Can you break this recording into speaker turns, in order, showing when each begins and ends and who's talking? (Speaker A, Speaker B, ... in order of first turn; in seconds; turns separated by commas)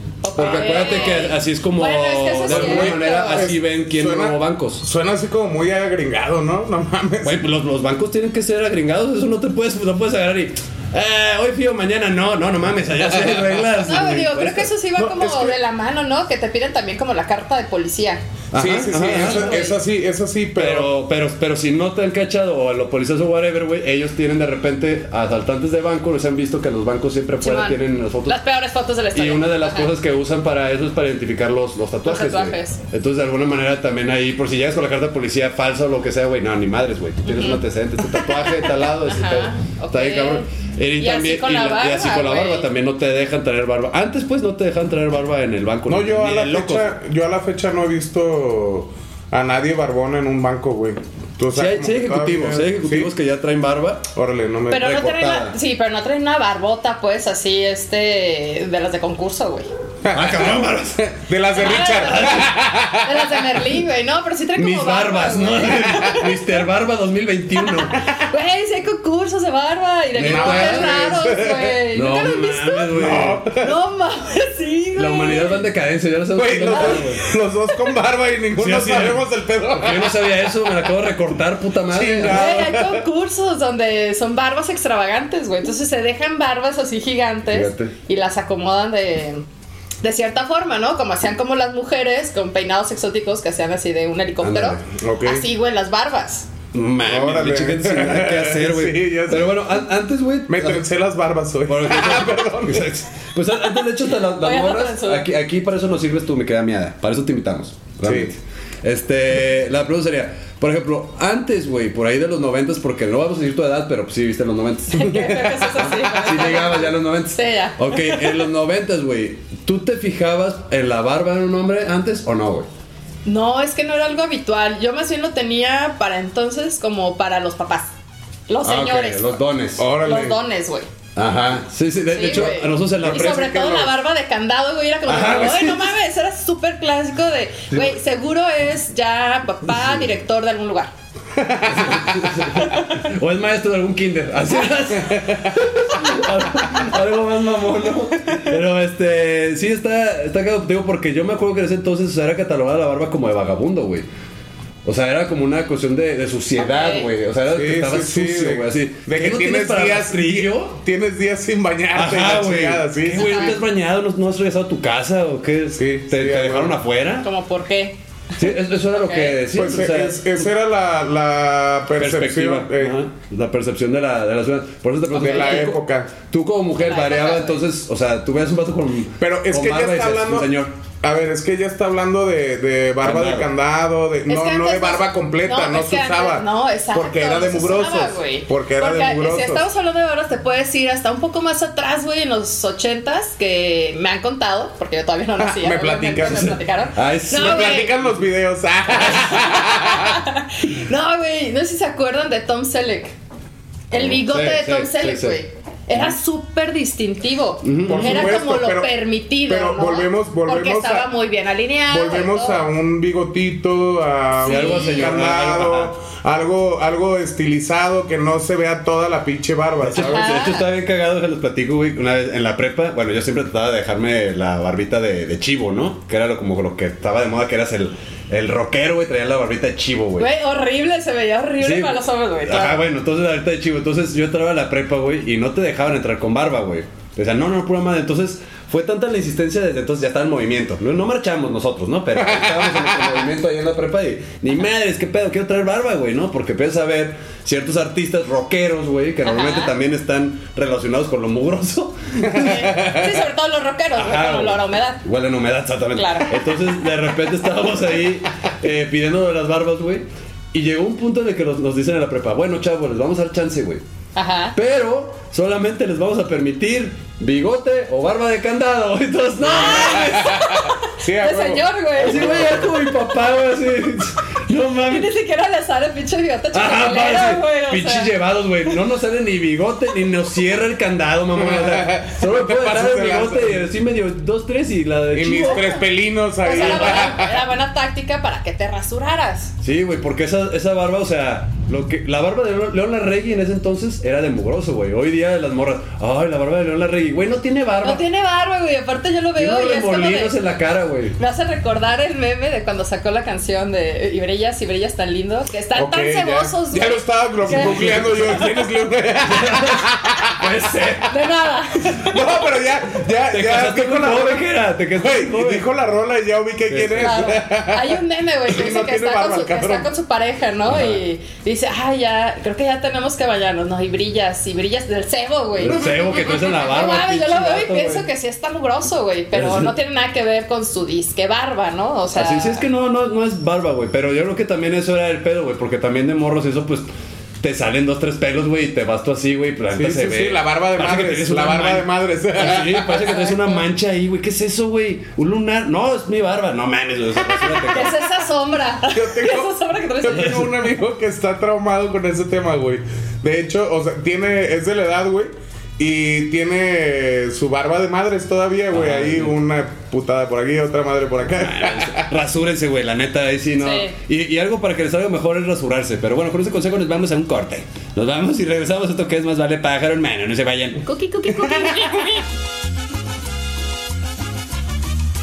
Speaker A: 0.2-3.5, Speaker B: 0.3-4.8, Speaker C: 0.4-1.1, Speaker C: 2.4-7.3, Speaker B: 7.2-14.7, Speaker A: 13.8-18.2, Speaker C: 15.0-15.6, Speaker B: 18.5-19.6, Speaker C: 18.5-20.9, Speaker A: 19.1-19.8, Speaker B: 20.6-28.4, Speaker A: 27.4-29.9, Speaker B: 29.1-46.9, Speaker A: 32.0-32.8, Speaker A: 37.2-37.6, Speaker A: 39.1-40.5, Speaker A: 41.0-42.7, Speaker C: 45.9-53.1, Speaker B: 51.5-54.0, Speaker C: 54.1-54.9, Speaker A: 54.7-59.7, Speaker B: 54.7-55.5, Speaker C: 60.0-63.2, Speaker B: 60.1-61.0, Speaker A: 61.5-66.2, Speaker B: 61.6-62.5, Speaker B: 64.5-67.9, Speaker A: 67.6-72.9, Speaker B: 70.1-71.1, Speaker C: 70.2-71.8, Speaker B: 71.9-73.5, Speaker C: 72.9-73.7, Speaker A: 73.5-75.6, Speaker B: 75.0-77.2, Speaker C: 76.3-80.9, Speaker A: 76.6-76.9, Speaker B: 78.6-82.6, Speaker C: 81.9-83.0, Speaker A: 82.2-89.4, Speaker B: 87.5-87.9, Speaker A: 90.0-96.5, Speaker B: 94.4-94.8, Speaker C: 94.9-95.5, Speaker B: 96.7-100.8, Speaker C: 97.0-99.8, Speaker C: 100.5-102.9, Speaker B: 101.7-122.7, Speaker A: 104.1-105.2, Speaker C: 108.0-108.3, Speaker A: 114.9-118.2, Speaker A: 123.2-127.9, Speaker A: 128.5-129.3, Speaker B: 128.6-129.9, Speaker C: 129.8-130.4, Speaker A: 130.0-130.9, Speaker B: 131.2-133.5, Speaker A: 132.1-140.9, Speaker C: 133.0-133.9, Speaker B: 135.1-135.9, Speaker C: 141.3-142.2, Speaker B: 141.7-154.1, Speaker A: 142.7-143.0, Speaker B: 154.8-160.8, Speaker A: 156.6-157.1, Speaker C: 157.5-163.6, Speaker B: 161.9-167.2, Speaker A: 163.2-163.5, Speaker C: 165.8-166.8, Speaker A: 167.2-169.4, Speaker B: 168.4-170.4, Speaker C: 169.5-173.0, Speaker B: 171.9-180.7, Speaker C: 175.1-176.1, Speaker A: 175.2-175.7, Speaker A: 176.8-177.6, Speaker C: 179.2-180.5, Speaker C: 181.0-189.6, Speaker B: 183.0-183.5, Speaker A: 184.3-197.9, Speaker C: 195.4-196.6, Speaker B: 196.3-197.8, Speaker C: 197.3-200.2, Speaker A: 199.3-203.1, Speaker A: 203.9-212.6, Speaker B: 203.9-205.4, Speaker B: 207.6-208.4, Speaker C: 207.9-211.1, Speaker C: 211.8-220.2, Speaker B: 214.4-215.9, Speaker A: 214.4-215.2, Speaker B: 219.8-230.3, Speaker A: 220.1-220.7, Speaker A: 230.2-232.8, Speaker B: 231.6-252.7, Speaker C: 242.2-242.9, Speaker A: 249.2-249.7, Speaker C: 252.2-253.1, Speaker A: 252.4-255.0, Speaker B: 253.9-263.8, Speaker A: 255.9-256.3, Speaker A: 264.1-264.6, Speaker B: 264.5-270.4, Speaker C: 269.5-272.8, Speaker A: 269.5-272.4, Speaker B: 272.0-275.1, Speaker A: 274.8-278.1, Speaker B: 276.5-285.8, Speaker C: 281.3-283.7, Speaker C: 285.1-287.4, Speaker A: 285.4-285.8, Speaker A: 286.4-289.5, Speaker B: 286.5-287.1, Speaker B: 289.6-298.0, Speaker A: 297.8-300.3, Speaker B: 299.4-301.2, Speaker A: 301.2-308.6, Speaker C: 305.7-310.5, Speaker B: 307.4-308.4, Speaker B: 309.2-311.1, Speaker A: 311.1-312.1, Speaker C: 311.9-314.4, Speaker B: 313.3-315.6, Speaker C: 315.0-319.9, Speaker B: 316.7-317.3, Speaker A: 317.0-332.6, Speaker B: 320.7-321.0, Speaker B: 325.6-328.1, Speaker B: 329.3-329.7, Speaker B: 332.1-336.9, Speaker B: 337.4-348.0, Speaker C: 339.7-343.2, Speaker A: 347.7-350.3, Speaker C: 348.9-362.0, Speaker B: 350.1-350.5, Speaker B: 358.7-359.3, Speaker B: 361.4-370.8, Speaker A: 363.6-363.9, Speaker A: 370.8-372.2